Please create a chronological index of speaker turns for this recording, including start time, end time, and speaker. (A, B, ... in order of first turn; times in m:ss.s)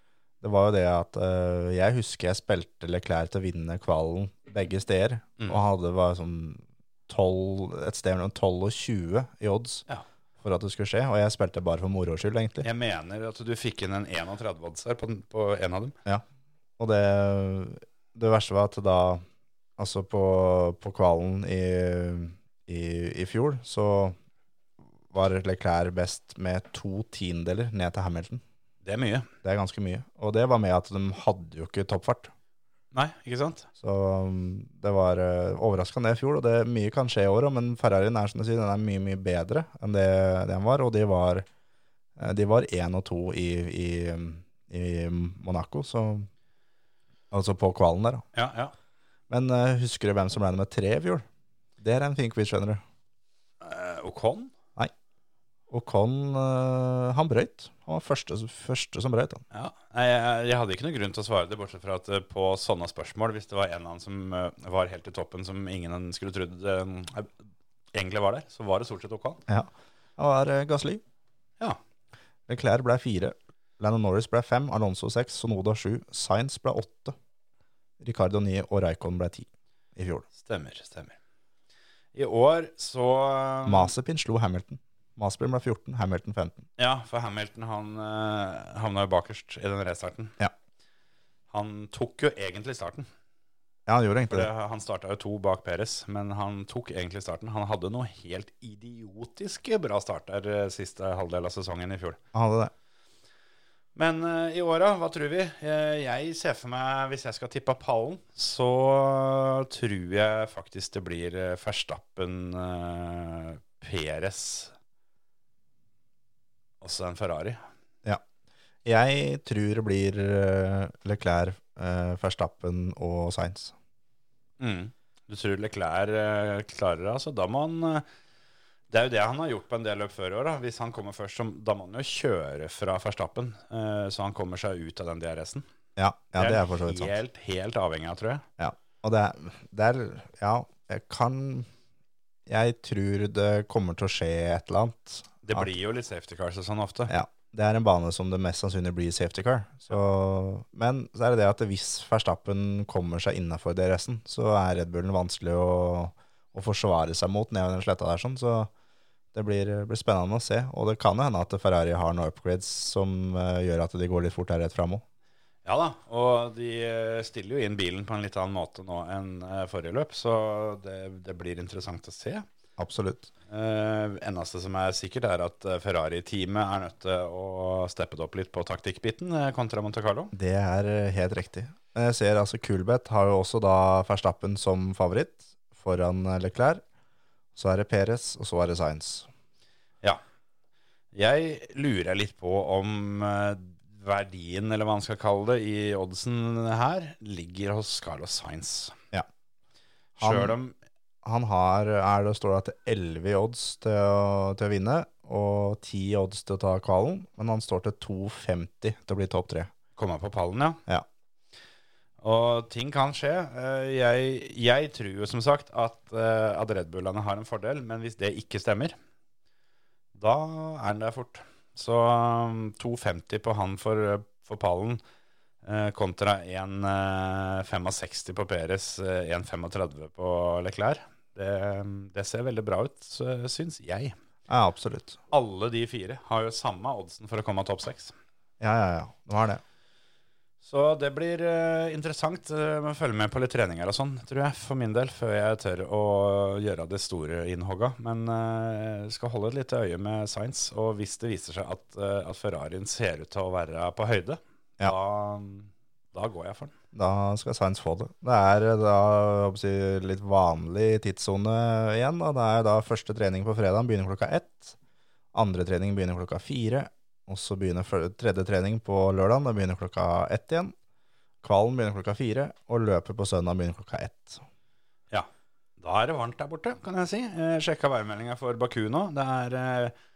0:00.4-0:09.8 A
0:10.4-0:12.7 A
0:12.6-0:16.0 B
0:16.8-0:19.2 A
0:19.8-0:24.2 A
0:25.1-0:28.4 A
0:28.8-0:29.3 B
0:29.4-0:32.3 A
0:32.9-0:33.7 B
0:33.8-0:41.5 A
0:42.2-0:46.3 A
0:47.3-0:48.2 A
0:48.3-0:48.7 B
0:49.3-0:51.3 A
0:51.8-0:52.8 A
0:53.6-0:54.5 B
0:55.7-0:59.4 A
0:59.5-1:07.3 B
1:07.9-1:09.4 B
1:09.5-1:11.0 A
1:12.5-1:17.1 A
1:18.0-1:20.3 A
1:20.4-1:21.2 B
1:22.1-1:23.9 B
1:23.6-1:26.7 A
1:26.8-1:30.4 B
1:31.5-1:33.1 B
1:33.9-1:34.5 A
1:34.3-1:42.2 B
1:42.3-1:42.7 A
1:44.0-1:54.7 B
1:56.8-1:57.6 B
1:58.8-2:03.7 A
2:04.6-2:08.0 B
2:08.9-2:15.6 B
2:16.0-2:17.1 A
2:16.4-2:18.4 B
2:18.6-2:21.7 A
2:22.5-2:25.7 A
2:25.4-2:27.1 B
2:27.1-2:38.7 A
2:39.3-2:45.0 A
2:45.6-2:52.5 B
2:52.8-2:53.3 A
2:53.5-3:00.3 B
3:00.3-3:06.8 A
3:07.6-3:09.3 A
3:11.1-3:19.0 B
3:20.2-3:20.7 B
3:20.2-3:20.6 A
3:21.2-3:29.7 A
3:30.0-3:30.8 B
3:32.2-3:39.0 B
3:40.1-3:45.0 B
3:45.6-3:54.1 B
3:54.5-3:55.2 A
3:55.3-3:58.1 B
3:58.6-3:59.6 A
4:00.6-4:16.7 B
4:16.9-4:24.8 A
4:25.3-4:30.7 A
4:31.4-4:34.4 A
4:35.8-4:39.9 B